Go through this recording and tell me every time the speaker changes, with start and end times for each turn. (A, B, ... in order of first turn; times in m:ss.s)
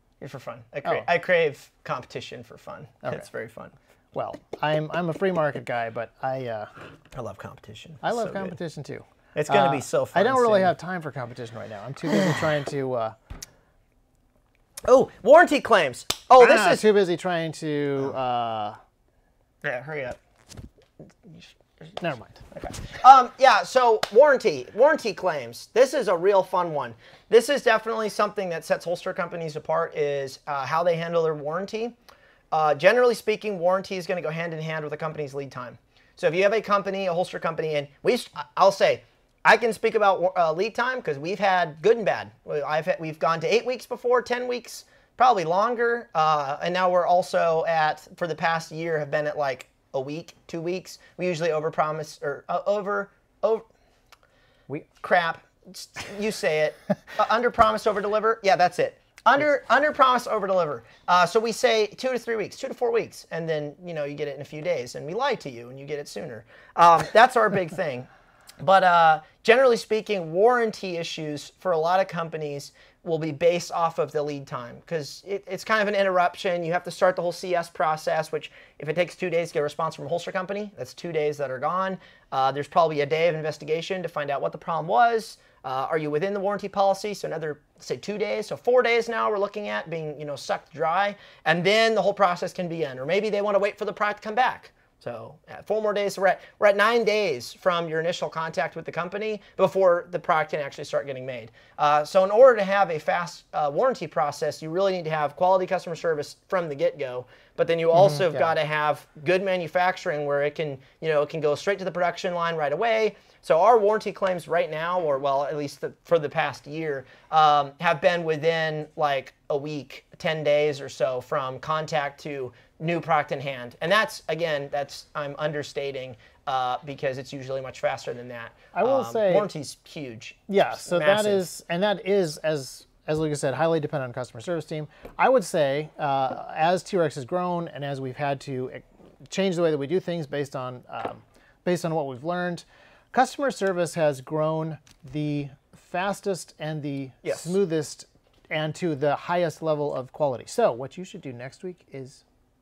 0:00.2-0:03.7 A
0:04.1-0:06.7 B
0:07.1-0:08.6 A
0:08.0-0:13.1 B
0:09.3-0:10.7 A
0:12.1-0:12.5 A
0:14.8-0:16.8 A
0:16.4-0:18.8 B
0:19.6-0:20.2 A
0:21.2-0:21.6 A
0:22.0-0:22.4 B
0:22.5-0:32.0 A
0:32.5-0:53.7 A
0:55.0-1:08.1 A
1:08.6-2:11.4 A
1:48.0-1:48.5 B
2:08.7-2:09.5 B
2:10.5-2:32.2 B
2:27.2-2:27.6 A